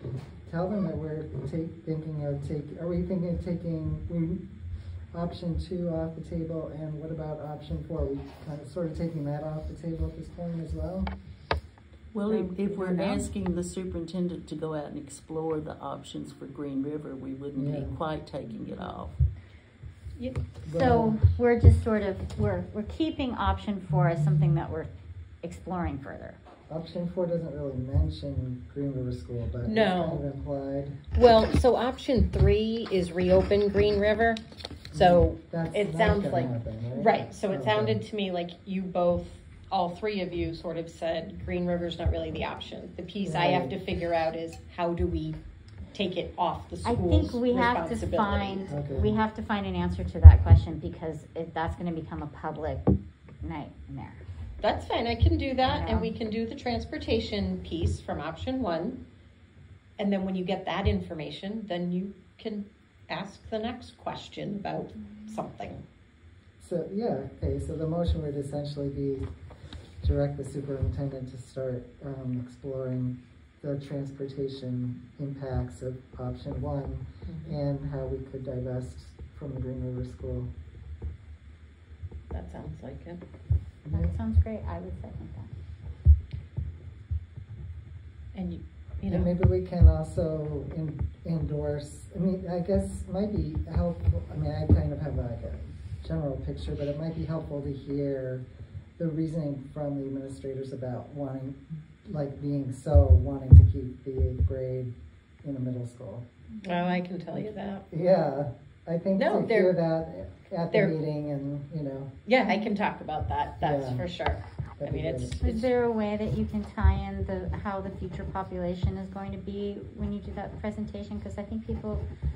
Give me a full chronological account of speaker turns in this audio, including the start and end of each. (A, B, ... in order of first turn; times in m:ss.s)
0:00.4-0:04.5 A
0:05.1-0:11.1 A
0:12.1-0:19.2 B
0:12.3-0:13.3 C
0:17.5-0:17.9 A
0:20.6-0:21.2 A
0:20.6-0:24.9 D
0:25.4-0:26.4 D
0:26.7-0:31.0 A
0:29.6-0:30.2 C
0:31.1-0:34.4 C
0:34.9-0:38.0 A
0:34.9-0:45.4 C
0:43.2-0:43.7 A
0:45.9-0:48.7 C
0:46.8-0:52.9 D
0:48.7-0:49.2 A
0:53.4-0:54.2 D
0:54.6-0:59.0 C
0:55.6-0:56.1 D
1:00.0-1:05.8 C
1:06.6-1:09.3 A
1:10.0-1:20.5 A
1:17.3-1:17.5 C
1:22.3-1:23.2 C
1:23.8-1:24.1 A
1:23.9-1:25.5 D
1:28.3-1:29.3 C
1:29.1-1:38.4 A
1:39.0-1:46.2 A
1:46.6-1:47.8 C
1:47.9-1:52.1 A
1:49.2-1:49.7 C
1:52.2-1:55.7 C
1:53.6-1:54.0 A
1:54.8-1:55.3 A
1:55.4-2:02.0 D